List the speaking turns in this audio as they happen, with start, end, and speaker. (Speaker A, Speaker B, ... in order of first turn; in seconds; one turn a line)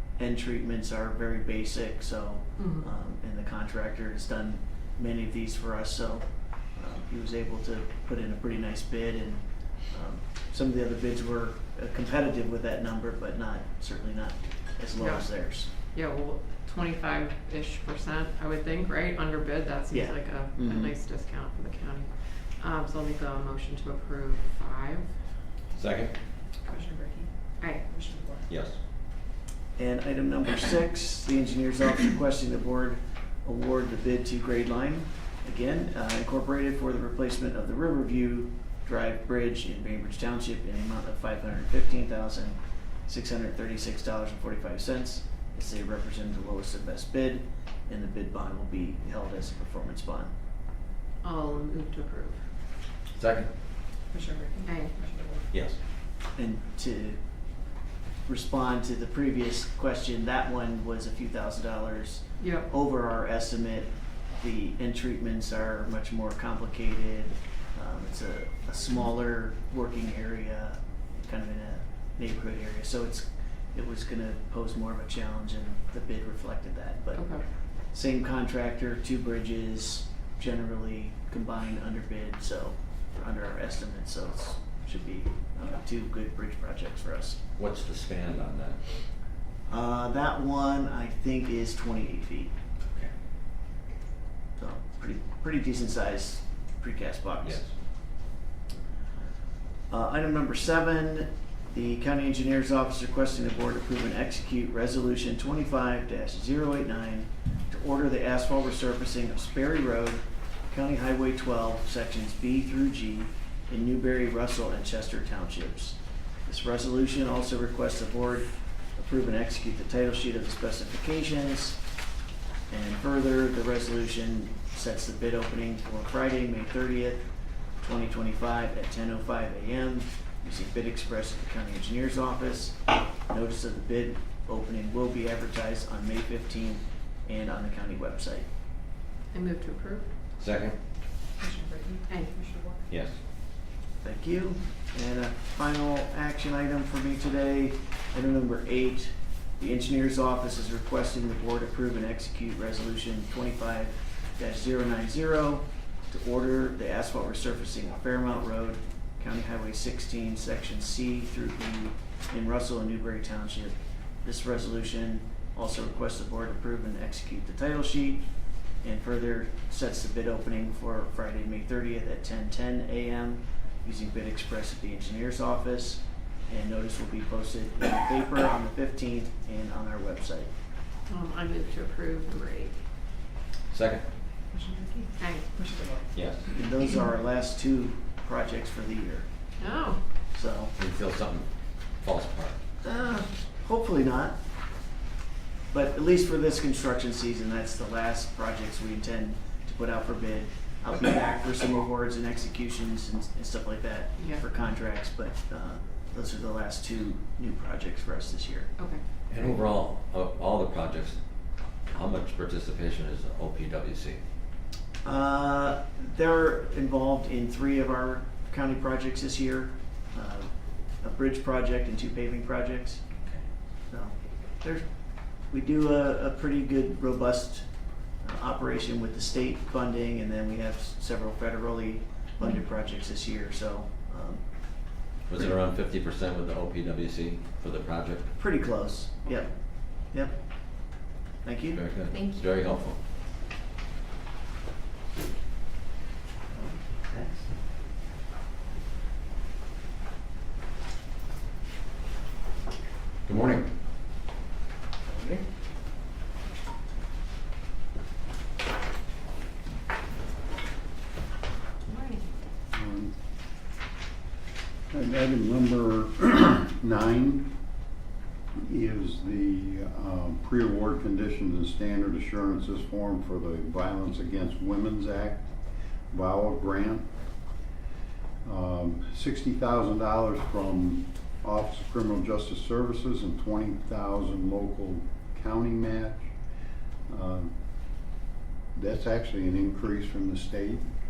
Speaker A: 0.2-6.2
Speaker B: 2.6-2.9
Speaker A: 6.8-15.7
Speaker B: 15.0-15.3
Speaker B: 15.9-25.1
Speaker A: 19.9-20.9
Speaker C: 25.8-26.1
Speaker D: 26.6-28.4
Speaker C: 28.5-28.8
Speaker A: 29.8-50.3
Speaker B: 51.2-52.4
Speaker C: 53.1-53.5
Speaker D: 54.1-55.4
Speaker B: 54.6-54.9
Speaker C: 55.5-55.8
Speaker A: 56.3-57.2
Speaker A: 58.2-77.2
Speaker B: 62.4-62.7
Speaker B: 77.2-77.4
Speaker A: 77.9-87.4
Speaker C: 87.5-88.8
Speaker A: 89.7-92.5
Speaker A: 94.6-97.6
Speaker C: 97.4-97.7
Speaker A: 99.9-121.8
Speaker A: 122.7-127.2
Speaker A: 127.8-138.4
Speaker B: 139.3-140.1
Speaker C: 140.4-140.8
Speaker D: 141.4-142.8
Speaker C: 142.9-143.2
Speaker A: 144.0-168.2
Speaker A: 168.8-180.5
Speaker B: 181.1-182.8
Speaker C: 183.7-184.0
Speaker D: 184.5-186.1
Speaker B: 185.2-185.5
Speaker C: 186.1-186.4
Speaker A: 186.5-189.2
Speaker B: 189.6-190.0
Speaker A: 190.3-190.7
Speaker C: 190.8-191.5
Speaker C: 192.0-192.6
Speaker A: 192.8-194.4
Speaker A: 195.7-208.7
Speaker B: 204.2-204.4
Speaker C: 209.3-211.2
Speaker C: 211.9-214.2
Speaker A: 215.0-220.5
Speaker A: 221.0-223.0
Speaker A: 223.9-224.8
Speaker A: 225.5-227.7
Speaker A: 228.2-234.4
Speaker C: 235.3-238.2
Speaker A: 238.4-239.5
Speaker A: 241.4-241.8
Speaker C: 241.7-243.0
Speaker C: 253.3-253.7
Speaker B: 261.9-262.2
Speaker E: 262.7-263.1
Speaker E: 264.9-267.5
Speaker E: 268.5-275.5
Speaker E: 276.1-277.1
Speaker E: 278.4-286.3
Speaker E: 287.1-287.5
Speaker E: 288.7-290.9